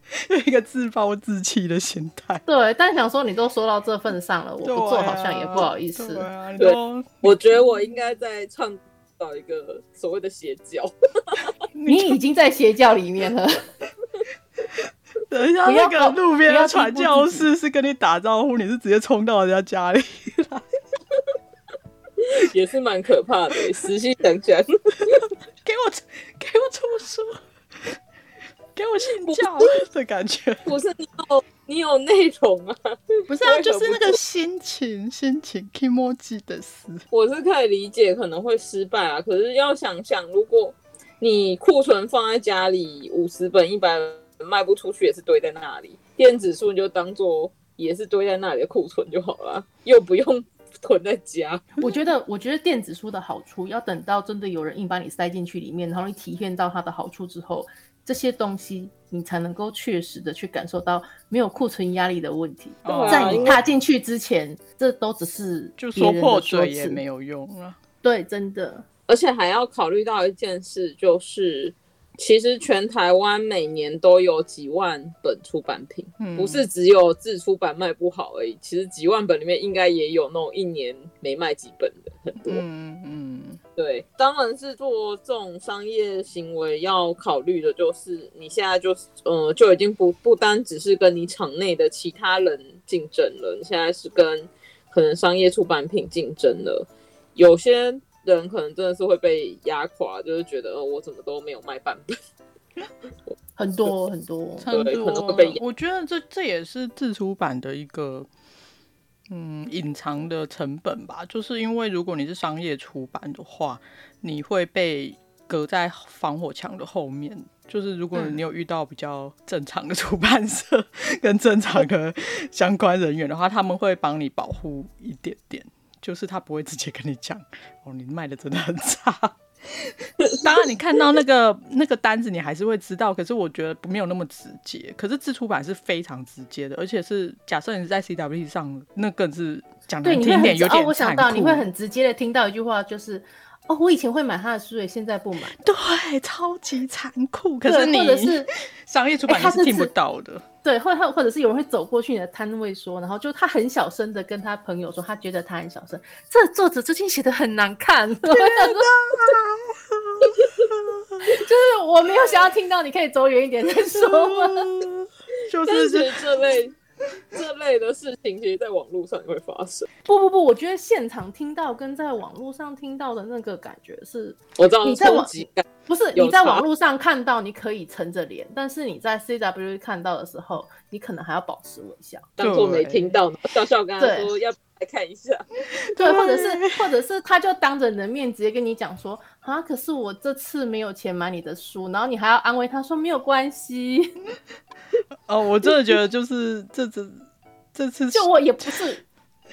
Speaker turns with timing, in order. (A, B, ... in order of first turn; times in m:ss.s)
0:00.3-0:02.4 A
0:02.4-0:06.3 B
0:04.6-0:07.4 A
0:06.6-0:11.5 C
0:11.7-0:12.2 A
0:11.9-0:13.7 B
0:15.3-0:20.6 A
0:15.6-0:17.5 B
0:22.2-0:25.3 C
0:25.6-0:28.0 A
0:28.8-0:30.7 A
0:29.2-0:29.6 C
0:30.6-0:34.2 C
0:33.3-0:37.0 A
0:37.1-0:51.6 C
0:51.8-1:07.0 B
1:02.8-1:03.6 A
1:02.9-1:03.6 C
1:05.8-1:07.8 A
1:08.0-1:08.8 B
1:09.1-1:22.6 C
1:16.2-1:16.7 A
1:22.4-1:23.6 A
1:23.8-1:42.1 C
1:43.6-1:44.7 B
1:44.6-1:48.3 A
1:44.7-1:45.6 C
1:49.3-2:21.7 A
2:20.0-2:25.6 B
2:25.6-2:30.4 A
2:27.6-2:28.5 B
2:29.3-2:29.9 B
2:30.6-2:38.9 B
2:38.3-2:41.2 A
2:41.2-2:44.7 B
2:43.9-2:46.2 A
2:45.6-2:46.7 C
2:47.3-2:49.9 C
2:50.0-3:02.3 B
2:54.6-2:56.6 C
3:02.4-3:05.4 C
3:02.4-3:03.2 A
3:04.0-3:04.4 B
3:05.8-3:06.7 A
3:06.0-3:14.2 B
3:15.3-3:17.2 A
3:17.7-3:18.8 A
3:18.1-3:19.0 B